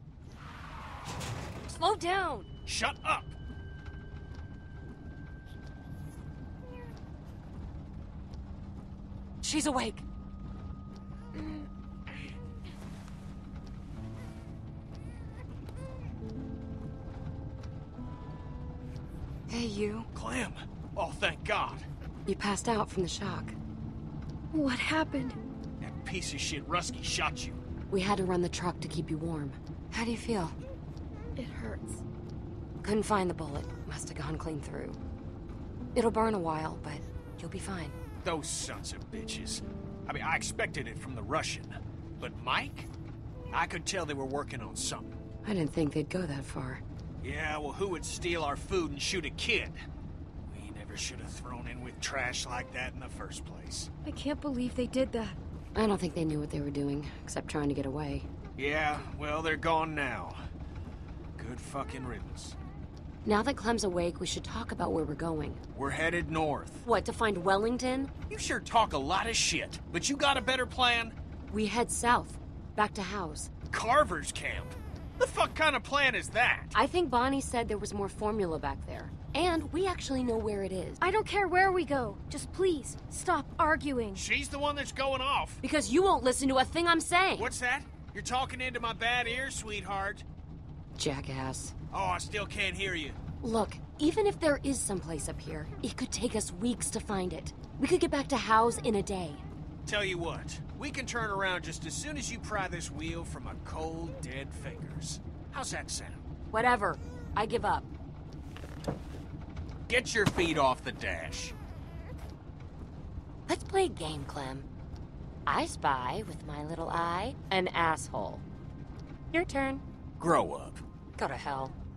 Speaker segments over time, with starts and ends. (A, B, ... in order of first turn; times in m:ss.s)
0:01.7-0:02.5 A
0:02.6-0:03.3 B
0:09.4-0:10.0 A
0:19.5-0:20.1 A
0:20.1-0:21.8 B
0:22.2-0:23.6 A
0:24.5-0:25.4 C
0:25.8-0:27.6 B
0:27.9-0:30.6 A
0:31.4-0:32.0 C
0:32.8-0:35.0 A
0:35.9-0:37.9 A
0:38.2-0:42.9 B
0:43.5-0:45.2 B
0:45.4-0:46.8 A
0:47.2-0:49.8 B
0:50.4-0:53.9 B
0:54.0-0:55.4 C
0:55.7-0:58.3 A
0:58.6-1:00.4 B
1:01.4-1:02.6 B
1:03.2-1:05.6 A
1:05.7-1:06.8 B
1:06.8-1:08.1 A
1:08.3-1:11.1 B
1:11.5-1:13.5 A
1:13.7-1:16.7 B
1:16.7-1:21.0 A
1:21.0-1:24.2 C
1:24.2-1:25.6 B
1:25.6-1:27.5 A
1:27.4-1:30.2 B
1:31.0-1:31.7 A
1:31.9-1:33.2 B
1:33.4-1:39.4 A
1:39.8-1:46.2 B
1:46.5-1:47.9 A
1:49.9-1:51.5 B
1:53.5-1:54.7 A
1:55.4-1:58.4 A
1:59.3-1:59.8 A
2:00.2-2:00.8 B
2:01.2-2:01.7 A